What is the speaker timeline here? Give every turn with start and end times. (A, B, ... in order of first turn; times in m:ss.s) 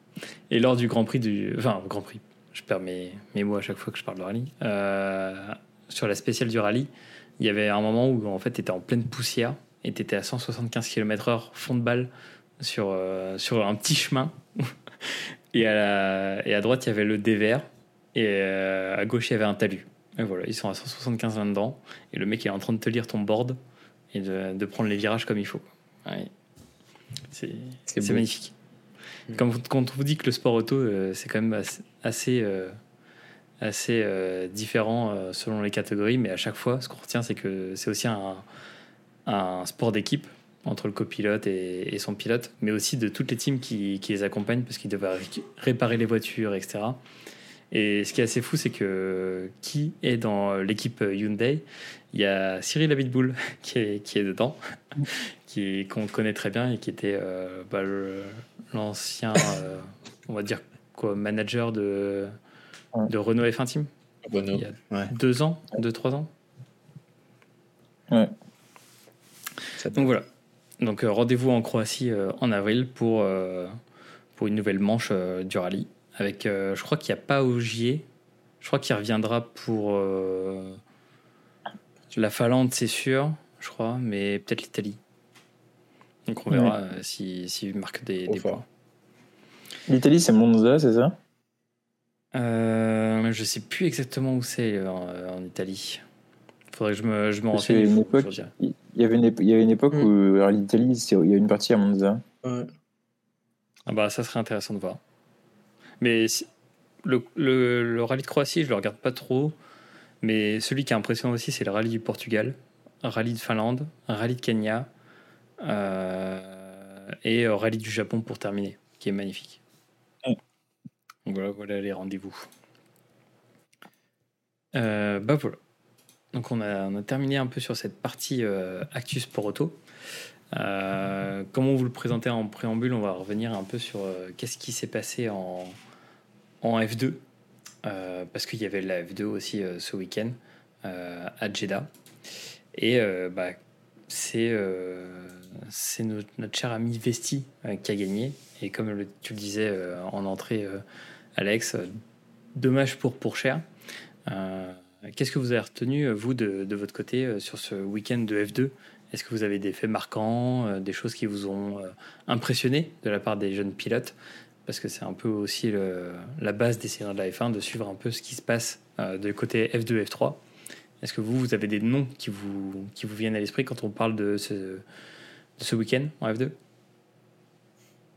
0:00.5-0:23.6 A
0:24.1-0:26.3 A
0:27.3-0:28.6 A
0:27.9-0:28.2 B
0:29.3-0:32.8 A
0:33.6-0:38.4 A
0:39.3-0:47.0 A
0:47.7-1:02.4 A
1:03.1-1:03.9 A
1:04.2-1:05.1 B
1:04.5-1:06.3 A
1:09.8-1:10.1 B
1:10.0-1:10.3 A
1:10.8-1:13.8 A
1:14.4-1:18.1 A
1:18.6-1:20.8 A
1:22.1-1:25.0 A
1:26.3-1:28.7 A
1:28.3-1:28.6 B
1:29.9-1:31.2 C
1:32.3-1:36.0 A
1:36.7-1:38.5 A
1:37.5-1:42.2 C
1:42.4-1:42.7 B
1:43.9-1:45.0 A
1:46.0-1:46.5 A
1:47.0-1:49.6 A
1:50.2-1:54.9 A
1:55.6-1:59.6 A
2:01.3-2:02.5 A
2:04.7-2:05.6 A
2:06.3-2:09.8 A
2:10.5-2:15.8 A
2:16.6-2:17.2 A
2:17.8-2:21.9 A
2:22.7-2:30.8 A
2:31.4-2:32.0 A
2:32.6-2:33.7 A
2:34.3-2:50.4 A
2:51.0-2:54.8 A
2:55.6-2:56.6 A